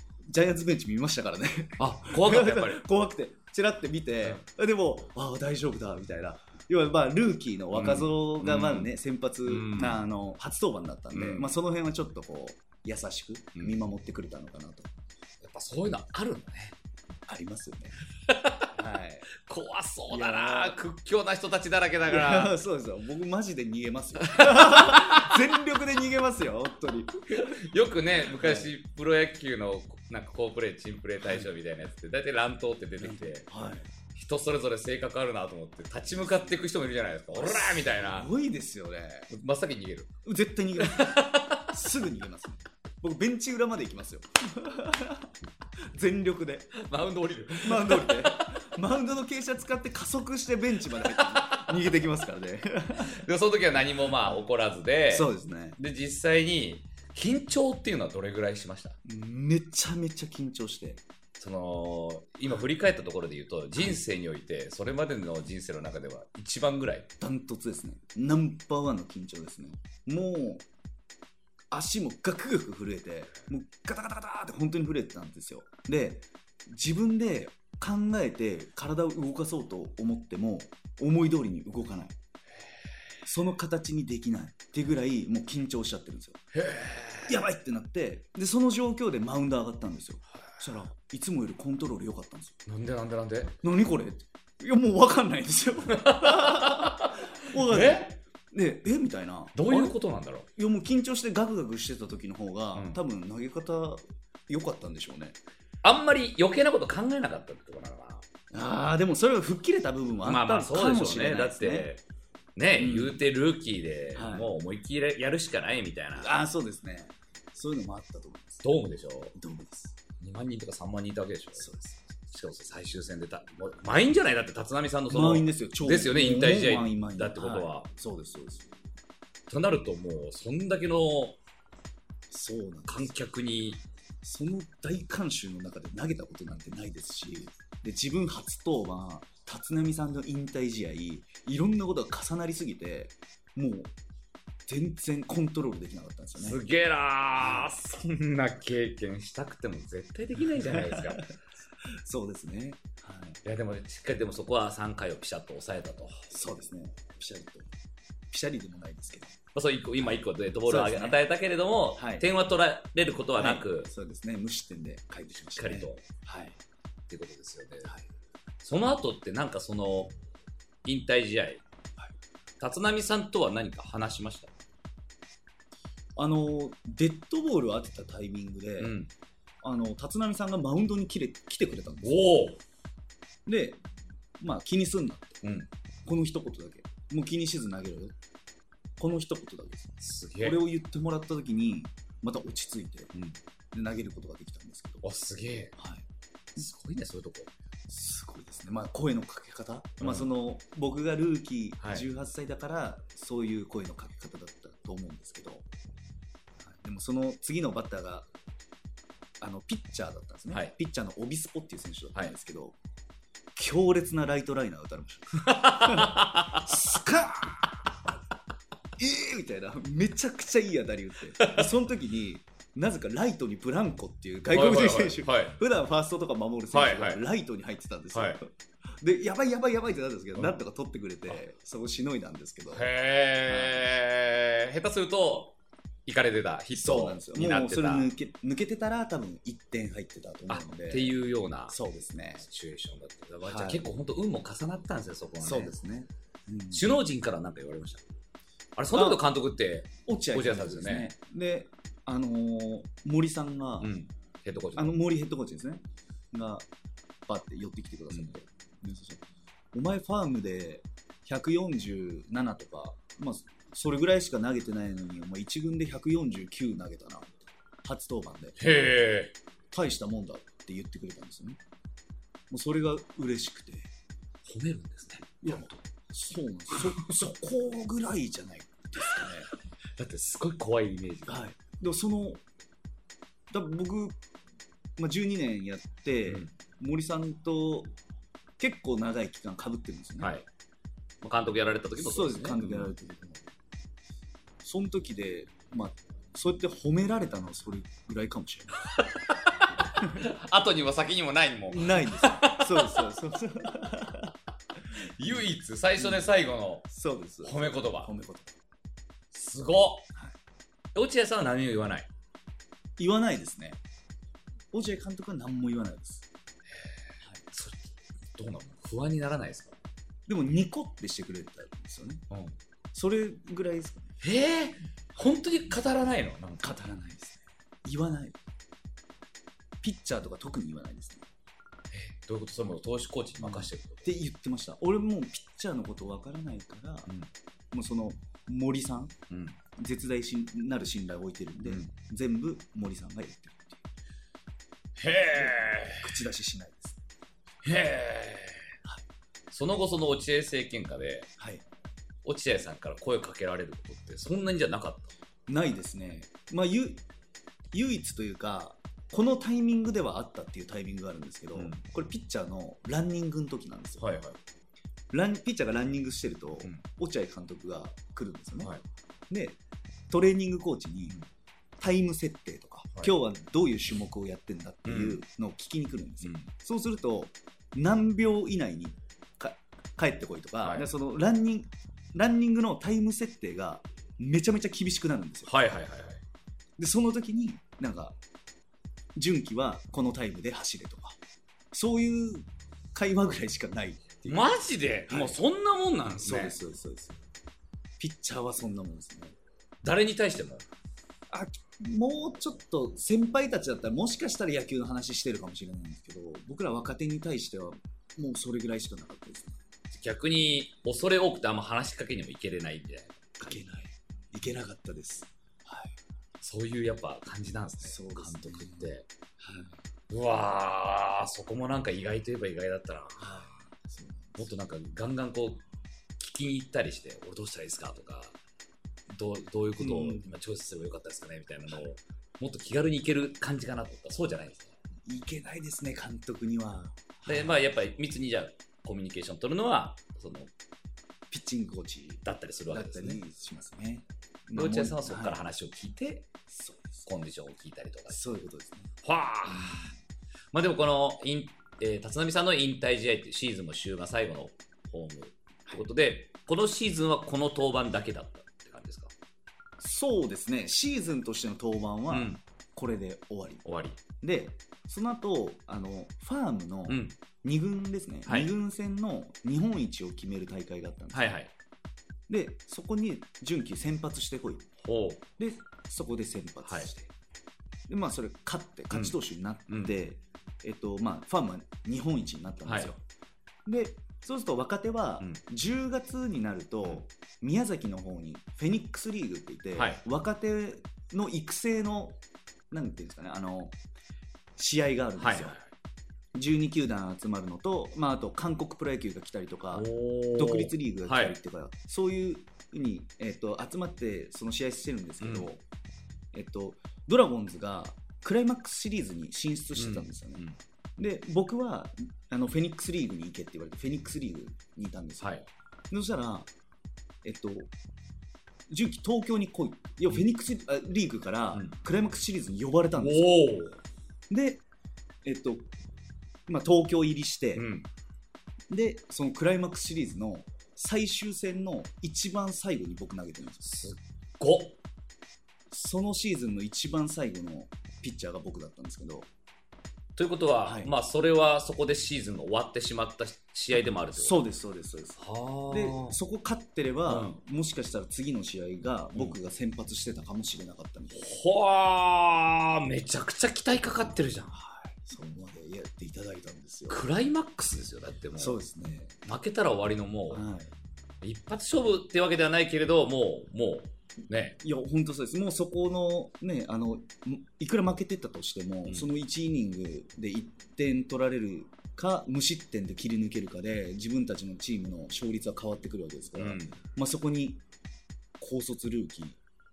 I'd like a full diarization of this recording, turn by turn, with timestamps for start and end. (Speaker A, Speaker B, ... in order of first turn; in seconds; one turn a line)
Speaker A: 0.3-14.9
Speaker B: 1.8-2.8
Speaker B: 7.7-8.9
Speaker B: 9.4-10.0
Speaker B: 11.1-11.5
Speaker B: 15.4-16.8
Speaker A: 17.3-18.0
Speaker B: 18.2-18.7
Speaker A: 18.7-19.3
Speaker B: 19.4-22.5
Speaker A: 20.1-20.8
Speaker A: 22.1-27.6
Speaker B: 24.3-25.4
Speaker B: 27.3-33.5
Speaker A: 28.3-28.7
Speaker A: 31.2-31.5
Speaker A: 33.0-33.9
Speaker B: 34.1-38.3
Speaker A: 37.3-39.3
Speaker B: 39.3-40.1
Speaker A: 40.2-45.3
Speaker B: 40.8-41.8
Speaker A: 45.9-46.8
Speaker B: 46.7-48.5
Speaker A: 47.6-53.2
Speaker B: 51.0-51.8
Speaker B: 53.0-59.0
Speaker A: 55.1-55.8
Speaker A: 59.0-61.0
Speaker B: 61.4-67.1
Speaker A: 67.2-70.6
Speaker A: 71.7-82.1
Speaker A: 83.2-86.4
Speaker B: 86.5-87.3
Speaker A: 87.2-92.6
Speaker B: 92.7-93.6
Speaker A: 93.6-100.0
Speaker B: 95.9-98.1
Speaker B: 99.5-100.5
Speaker A: 100.5-105.3
Speaker B: 102.7-103.0
Speaker B: 105.8-108.2
Speaker A: 108.5-111.9
Speaker B: 110.2-112.0
Speaker B: 112.5-116.3
Speaker A: 112.8-113.2
Speaker A: 114.1-114.5
Speaker A: 116.2-118.6
Speaker B: 118.6-119.3
Speaker A: 119.3-120.0
Speaker B: 120.2-121.7
Speaker A: 121.6-122.1
Speaker B: 122.3-127.9
Speaker A: 125.1-128.7
Speaker B: 129.5-131.4
Speaker A: 132.3-133.1
Speaker B: 132.9-133.8
Speaker A: 134.2-143.9
Speaker A: 144.7-146.6
Speaker B: 146.4-151.2
Speaker A: 147.4-147.8
Speaker A: 150.6-151.3
Speaker A: 151.8-153.4
Speaker B: 153.4-156.3
Speaker A: 156.3-157.7
Speaker A: 158.3-159.4
Speaker B: 159.5-163.9
Speaker A: 160.7-161.2
Speaker A: 161.9-162.3
Speaker A: 163.3-166.6
Speaker B: 165.6-166.0
Speaker B: 167.1-167.9
Speaker B: 168.6-170.1
Speaker B: 170.8-171.6
Speaker B: 172.6-174.5
Speaker A: 176.2-178.9
Speaker B: 178.8-179.1
Speaker A: 179.6-182.5
Speaker B: 182.0-182.6
Speaker A: 183.4-183.8
Speaker A: 184.4-185.4
Speaker B: 185.4-185.7
Speaker A: 186.1-188.1
Speaker A: 189.0-193.1
Speaker B: 190.0-190.6
Speaker A: 193.7-195.1
Speaker B: 195.0-195.7
Speaker A: 195.8-196.0
Speaker B: 196.6-197.5
Speaker A: 197.9-205.6
Speaker B: 200.0-200.3
Speaker B: 201.8-202.1
Speaker A: 206.6-208.3
Speaker A: 209.4-212.8
Speaker A: 213.6-217.8
Speaker B: 215.4-216.8
Speaker A: 219.0-232.9
Speaker B: 221.4-221.7
Speaker B: 224.5-225.6
Speaker B: 226.7-227.2
Speaker B: 228.1-228.4
Speaker B: 232.7-235.5
Speaker A: 233.5-233.8
Speaker B: 236.1-238.1
Speaker A: 236.7-241.2
Speaker B: 240.5-241.8
Speaker A: 241.7-242.4
Speaker B: 242.4-245.8
Speaker A: 243.4-243.9
Speaker A: 245.4-246.9
Speaker B: 246.7-248.0
Speaker B: 248.8-251.1
Speaker A: 248.9-249.2
Speaker A: 250.1-253.9
Speaker B: 253.8-255.0
Speaker A: 254.8-256.6
Speaker A: 257.3-268.6
Speaker B: 268.6-269.3
Speaker A: 269.7-271.6
Speaker A: 272.5-273.9
Speaker B: 274.4-275.8
Speaker A: 275.4-279.5
Speaker B: 276.7-277.3
Speaker B: 279.9-281.4
Speaker A: 281.3-282.4
Speaker A: 283.5-284.2
Speaker A: 285.0-287.9
Speaker A: 288.6-290.3
Speaker B: 290.2-290.5
Speaker B: 291.2-292.9
Speaker A: 291.9-293.4
Speaker A: 294.6-298.9
Speaker B: 299.0-303.1
Speaker A: 301.7-304.3
Speaker B: 304.9-306.9
Speaker A: 306.0-306.2
Speaker A: 306.9-308.5
Speaker B: 307.4-308.1
Speaker B: 309.3-310.1
Speaker B: 310.9-312.1
Speaker A: 313.0-313.8
Speaker A: 314.7-316.2
Speaker B: 317.5-319.8
Speaker A: 320.3-322.2
Speaker B: 322.3-322.6
Speaker A: 322.9-324.1
Speaker B: 324.2-326.8
Speaker A: 326.6-328.4
Speaker A: 329.8-331.2
Speaker B: 331.9-334.1
Speaker A: 333.4-337.1
Speaker A: 337.7-339.1
Speaker B: 339.3-339.6
Speaker A: 339.8-343.8
Speaker B: 341.6-341.9
Speaker B: 345.0-346.2
Speaker A: 345.3-347.0
Speaker B: 347.6-348.8
Speaker B: 349.5-351.3
Speaker A: 351.4-351.6
Speaker B: 352.2-355.1
Speaker A: 355.5-357.0
Speaker A: 357.7-364.1
Speaker B: 361.5-361.8
Speaker B: 364.0-364.4
Speaker A: 365.1-368.7
Speaker A: 369.3-369.6
Speaker A: 370.1-371.2
Speaker A: 371.8-385.5
Speaker B: 374.8-375.2
Speaker B: 376.2-376.5
Speaker B: 385.5-386.2
Speaker A: 386.8-388.1
Speaker A: 389.1-391.2
Speaker A: 391.7-394.5
Speaker B: 394.2-396.6
Speaker A: 395.1-395.4
Speaker A: 396.1-397.2
Speaker A: 398.0-399.3
Speaker B: 399.8-400.6
Speaker A: 401.3-409.6
Speaker B: 409.9-413.3
Speaker A: 413.4-415.9
Speaker B: 416.4-419.1
Speaker A: 417.8-419.8
Speaker B: 420.1-423.4
Speaker A: 423.2-424.5
Speaker B: 424.4-425.6
Speaker B: 426.2-428.4
Speaker B: 429.1-434.7
Speaker A: 429.8-430.3
Speaker A: 435.1-437.6
Speaker B: 437.2-440.5
Speaker A: 441.3-445.4
Speaker B: 442.2-443.2
Speaker B: 444.5-446.3
Speaker A: 446.5-447.1
Speaker B: 447.1-448.3
Speaker A: 448.1-448.9
Speaker B: 449.0-449.9
Speaker A: 449.4-449.9
Speaker B: 450.5-459.1
Speaker A: 459.8-463.6
Speaker B: 462.1-462.4
Speaker B: 463.6-464.0
Speaker A: 464.2-471.3
Speaker B: 466.9-467.1
Speaker B: 471.1-471.5
Speaker A: 472.3-474.7
Speaker B: 474.8-475.2
Speaker A: 475.4-477.1
Speaker B: 476.6-476.9
Speaker A: 477.9-483.0
Speaker B: 482.6-482.9
Speaker A: 483.6-492.2
Speaker B: 489.7-490.0
Speaker A: 492.7-493.7
Speaker A: 494.6-495.6
Speaker B: 495.2-495.7
Speaker A: 496.3-505.6
Speaker B: 499.7-501.4
Speaker B: 505.2-505.5
Speaker A: 506.3-510.4
Speaker B: 509.8-510.6
Speaker A: 511.0-515.4
Speaker B: 515.2-515.5
Speaker A: 515.9-516.5
Speaker A: 517.2-517.7
Speaker A: 518.7-523.6
Speaker B: 523.0-523.8
Speaker A: 524.3-524.6
Speaker A: 525.2-525.7
Speaker A: 526.5-527.7
Speaker B: 527.5-527.9
Speaker A: 528.7-533.7
Speaker B: 533.6-534.8
Speaker A: 535.7-539.3
Speaker B: 540.1-544.4
Speaker A: 540.6-540.9
Speaker A: 544.1-551.3
Speaker B: 545.2-546.2
Speaker B: 547.1-547.3
Speaker B: 551.1-554.5
Speaker A: 554.5-557.0
Speaker B: 556.9-558.6
Speaker A: 558.4-559.2
Speaker B: 559.2-560.4
Speaker A: 560.3-560.7
Speaker B: 561.2-564.6
Speaker A: 564.6-577.6
Speaker B: 576.4-576.8
Speaker A: 578.4-579.4